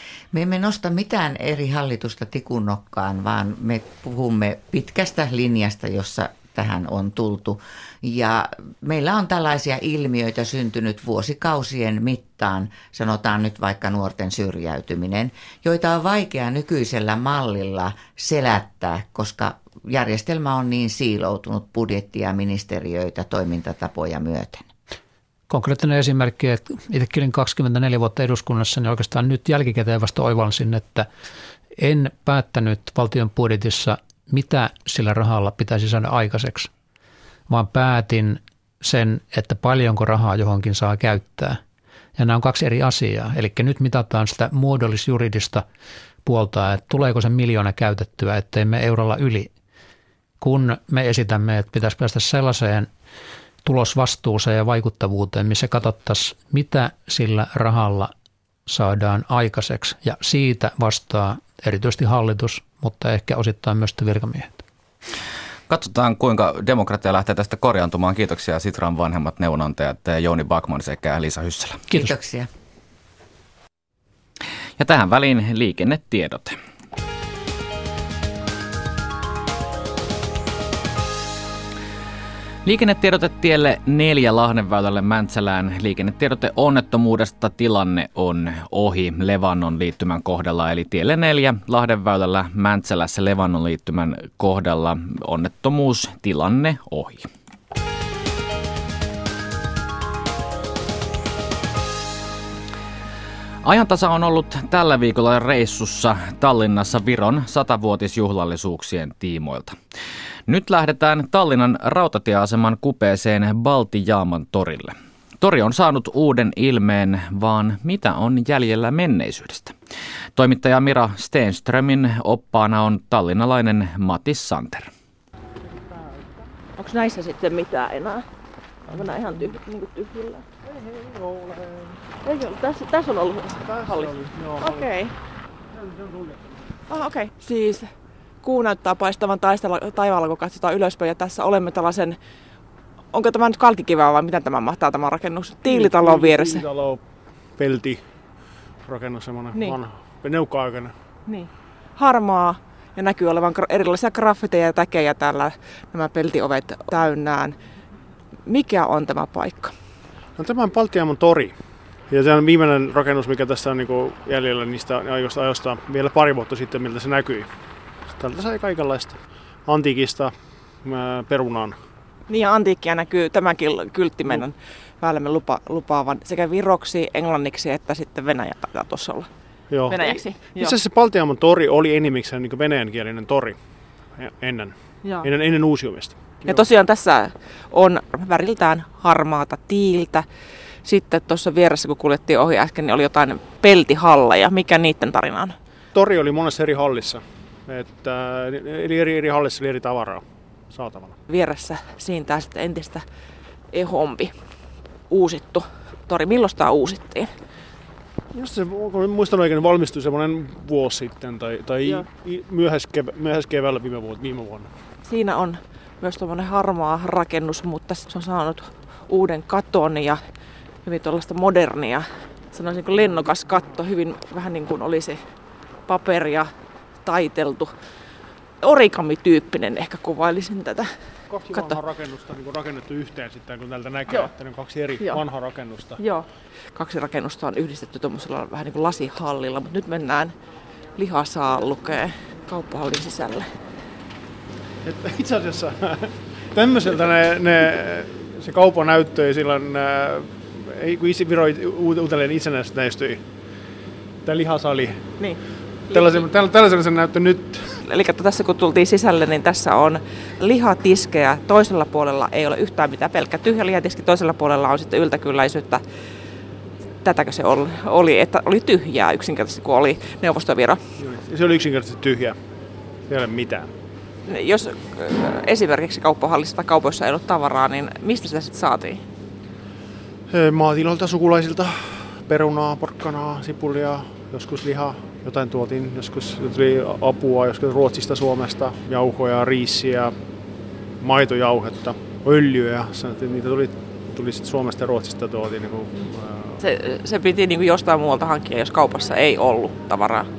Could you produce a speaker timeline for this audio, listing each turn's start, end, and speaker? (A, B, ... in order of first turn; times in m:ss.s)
0:00.3-0:24.7 A
0:25.5-0:31.1 B
0:31.8-0:36.7 B
0:37.5-0:41.6 B
0:42.2-0:45.6 B
0:46.2-0:49.5 B
0:50.4-0:52.9 B
0:53.6-0:58.1 B
0:58.7-1:04.6 B
1:05.7-1:11.8 C
1:11.9-1:12.5 A
1:14.8-1:16.6 C
1:22.6-1:37.3 C
1:43.6-1:49.8 C
1:50.5-1:59.8 C
2:00.4-2:04.9 C
2:06.8-2:08.2 D
2:08.9-2:10.4 D
2:11.1-2:11.9 E
2:12.2-2:15.1 D
2:13.6-2:14.9 E
2:15.7-2:16.6 E
2:16.9-2:17.9 D
2:18.4-2:22.2 D
2:23.1-2:26.6 D
2:25.6-2:27.0 E
2:27.5-2:28.0 E
2:28.8-2:30.9 E
2:29.5-2:29.8 D
2:31.2-2:37.6 D
2:38.5-2:39.8 D
2:40.4-2:41.5 E
2:42.1-2:47.5 E
2:48.2-2:51.8 E
2:52.3-2:59.3 D
2:59.7-3:03.6 E
2:59.8-3:00.7 D
3:04.1-3:06.6 E
3:05.0-3:05.3 D
3:06.4-3:10.2 D
3:10.8-3:15.6 D
3:15.9-3:21.2 E
3:21.3-3:23.0 D
3:23.7-3:24.3 D
3:25.1-3:27.3 D
3:28.3-3:34.7 E
3:35.0-3:40.2 D
3:40.8-3:45.2 D
3:45.9-3:46.5 D
3:47.0-3:47.7 D
3:48.6-3:50.9 D
3:51.3-3:56.0 E
3:51.5-3:51.8 D
3:54.1-3:54.3 D
3:55.0-3:55.2 D
3:56.0-4:00.3 D
4:01.0-4:03.5 D
4:04.8-4:13.2 E
4:14.2-4:15.0 E
4:15.9-4:16.3 D
4:15.9-4:17.8 E
4:17.8-4:25.8 D
4:27.0-4:30.8 D
4:31.0-4:32.4 E
4:33.1-4:33.7 E
4:34.3-4:39.0 D
4:40.3-4:50.1 E
4:51.0-4:56.6 E
4:55.9-5:00.3 D